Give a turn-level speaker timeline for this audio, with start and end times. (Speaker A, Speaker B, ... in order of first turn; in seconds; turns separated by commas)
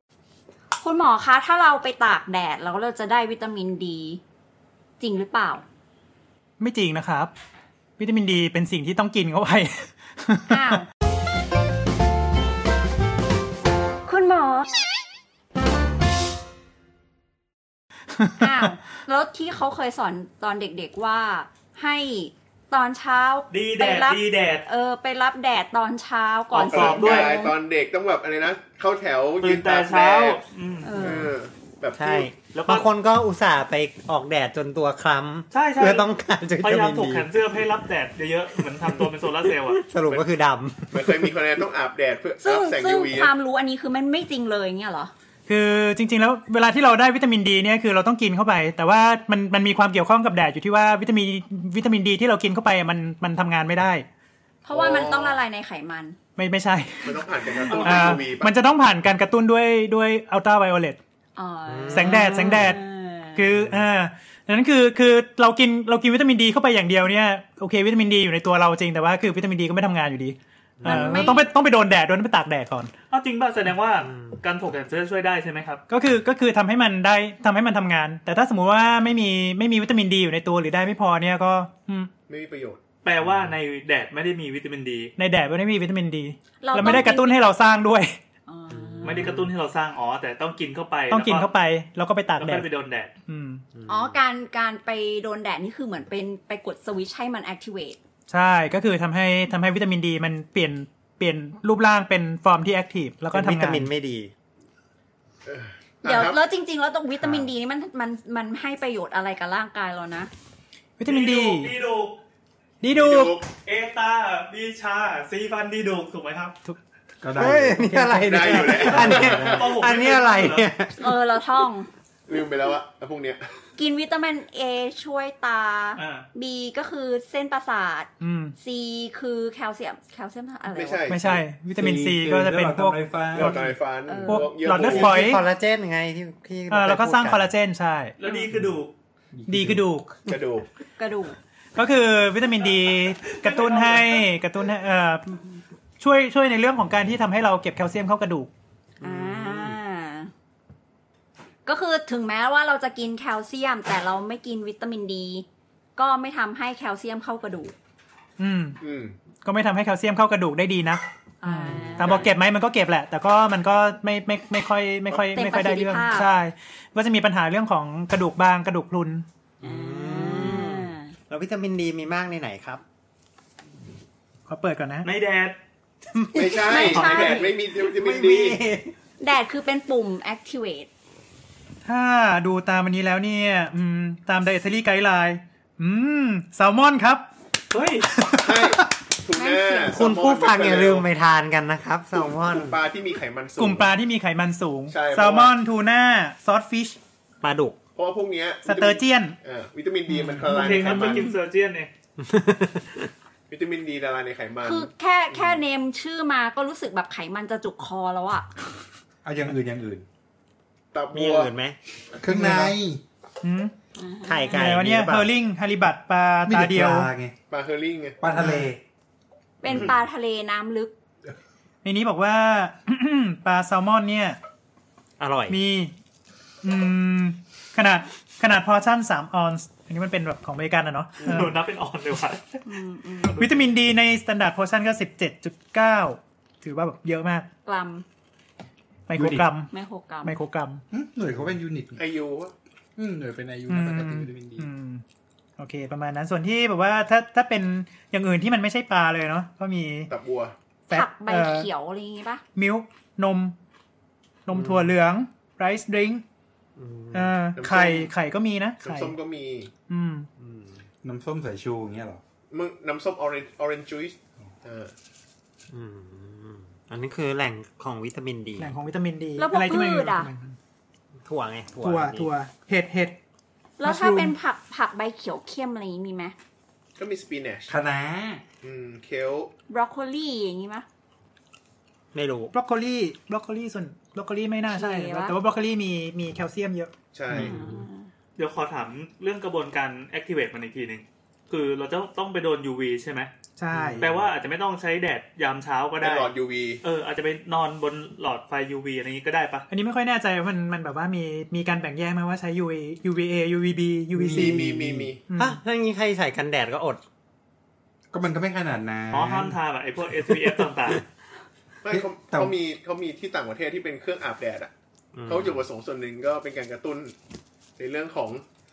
Speaker A: 0.8-4.2, Speaker A: 5.0-5.6, Speaker B: 6.6-7.3, Speaker B: 8.0-10.8, Speaker A: 10.5-10.8, Speaker A: 14.1-14.7, Speaker B: 18.1-18.7, Speaker A: 18.4-27.6, Speaker C: 23.5-24.6, Speaker D: 26.5-30.4, Speaker C: 26.5-27.4, Speaker C: 29.4-31.2, Speaker A: 30.8-31.3, Speaker D: 31.0-32.3, Speaker E: 31.9-37.3, Speaker C: 32.5-32.9, Speaker C: 35.5-39.8, Speaker E: 39.6-41.4, Speaker D: 40.9-43.3, Speaker A: 42.4-45.1, Speaker B: 45.5-54.0, Speaker A: 54.6-56.2, Speaker D: 54.7-55.4, Speaker B: 56.4-61.0, Speaker D: 57.0-58.5, Speaker A: 61.4-63.5, Speaker E: 61.6-62.6, Speaker B: 61.9-62.8, Speaker B: 63.3-72.9, Speaker E: 70.8-71.3, Speaker A: 70.8-71.5, Speaker C: 73.1-75.8, Speaker E: 74.0-74.4, Speaker B: 75.9-82.1, Speaker D: 82.3-82.8, Speaker C: 83.0-85.1, Speaker B: 85.2-88.2, Speaker A: 86.6-87.5, Speaker A: 88.5-89.2, Speaker E: 88.7-89.5, Speaker C: 89.0-91.5, Speaker B: 91.1-92.7, Speaker C: 92.4-93.1, Speaker B: 93.3-93.6, Speaker E: 93.7-94.2, Speaker A: 93.9-98.0, Speaker B: 98.3-103.9, Speaker E: 103.3-104.3, Speaker D: 105.5-106.4, Speaker A: 106.0-110.3, Speaker B: 111.0-111.7, Speaker C: 111.0-112.2, Speaker B: 112.8-113.4, Speaker D: 112.9-113.5, Speaker C: 113.6-116.5, Speaker F: 117.2-117.9, Speaker E: 117.3-121.2, Speaker B: 117.8-119.1, Speaker D: 118.2-119.8, Speaker F: 118.8-119.3, Speaker C: 119.2-120.7, Speaker A: 121.0-121.9, Speaker D: 122.3-123.5, Speaker A: 123.8-131.1, Speaker C: 126.0-126.3, Speaker B: 128.2-128.6, Speaker D: 130.7-131.4, Speaker B: 131.1-135.4, Speaker F: 131.7-133.6, Speaker D: 133.3-135.2, Speaker A: 134.0-134.9, Speaker E: 134.9-137.5, Speaker B: 136.7-138.1, Speaker C: 138.2-138.9, Speaker F: 138.5-139.9, Speaker B: 139.5-140.3, Speaker D: 140.2-140.7, Speaker A: 141.0-141.3, Speaker B: 141.8-148.5, Speaker C: 143.3-144.2, Speaker A: 149.0-150.3, Speaker F: 149.3-149.6, Speaker A: 151.6-155.4, Speaker A: 155.9-157.7, Speaker B: 158.4-158.8, Speaker D: 158.8-159.1, Speaker B: 159.4-169.2, Speaker A: 161.4-162.2, Speaker E: 161.7-162.3, Speaker A: 165.3-166.3, Speaker E: 169.6-172.8, Speaker A: 169.6-171.1, Speaker B: 174.5-175.1, Speaker C: 175.0-175.6, Speaker E: 176.1-178.9, Speaker D: 176.3-178.6, Speaker A: 176.7-177.3, Speaker C: 176.8-177.5, Speaker A: 179.2-180.9, Speaker B: 181.8-187.2, Speaker C: 187.7-188.1, Speaker D: 188.4-191.1, Speaker A: 189.3-190.0, Speaker E: 189.9-192.8, Speaker D: 192.1-193.9, Speaker B: 193.6-197.0, Speaker D: 194.9-195.5, Speaker E: 197.4-197.8, Speaker D: 197.9-201.3, Speaker B: 198.6-199.4, Speaker B: 200.1-201.1, Speaker C: 200.4-201.9, Speaker E: 202.2-203.1, Speaker D: 203.5-205.6, Speaker A: 204.6-208.5, Speaker F: 209.2-210.1, Speaker D: 210.9-211.5, Speaker E: 211.1-211.8, Speaker F: 212.2-213.0, Speaker B: 212.3-212.8, Speaker B: 213.4-213.7, Speaker A: 213.9-214.8, Speaker E: 214.2-215.3, Speaker B: 214.5-217.1, Speaker F: 216.4-217.4, Speaker D: 217.5-218.2, Speaker F: 218.2-218.8, Speaker B: 218.3-218.7, Speaker A: 219.6-220.9, Speaker B: 221.8-224.4, Speaker E: 225.2-225.6, Speaker B: 225.5-225.9, Speaker B: 226.6-231.6, Speaker C: 231.2-232.6, Speaker A: 232.6-233.4, Speaker B: 233.3-237.5, Speaker A: 237.6-238.0, Speaker B: 239.1-240.8, Speaker F: 239.1-239.5, Speaker A: 239.7-240.3, Speaker F: 240.9-242.0, Speaker D: 241.9-242.5, Speaker F: 243.0-244.7, Speaker B: 243.7-245.0, Speaker B: 245.6-250.1, Speaker D: 250.1-250.5, Speaker B: 250.9-251.7, Speaker A: 250.9-252.4, Speaker B: 252.5-253.6, Speaker B: 254.4-256.2, Speaker E: 254.5-254.9, Speaker E: 256.8-257.4, Speaker B: 257.1-259.1, Speaker D: 257.5-258.1, Speaker D: 258.8-259.7, Speaker B: 259.9-260.3, Speaker E: 260.4-260.8, Speaker F: 261.0-262.2, Speaker D: 262.5-264.9, Speaker E: 265.7-268.7, Speaker B: 268.6-270.6, Speaker A: 269.4-270.3, Speaker E: 271.2-272.3, Speaker B: 271.8-273.2, Speaker A: 273.8-276.3, Speaker B: 273.8-274.3, Speaker D: 277.0-277.8, Speaker F: 277.7-278.4, Speaker D: 278.6-279.5, Speaker A: 279.7-280.9, Speaker E: 282.1-282.5, Speaker B: 282.5-286.9, Speaker A: 284.6-285.4, Speaker D: 287.1-287.6, Speaker A: 287.3-288.1, Speaker C: 288.4-293.3, Speaker B: 293.6-294.0, Speaker C: 294.0-296.3, Speaker D: 296.0-296.8, Speaker C: 296.8-299.6, Speaker B: 299.7-304.6, Speaker F: 304.1-305.1, Speaker D: 304.3-305.2, Speaker B: 305.3-305.6, Speaker E: 305.3-307.0, Speaker F: 308.1-309.6, Speaker C: 309.1-311.0, Speaker D: 311.8-314.7, Speaker F: 311.9-312.6, Speaker E: 315.1-315.6, Speaker D: 315.2-317.1, Speaker D: 317.8-318.4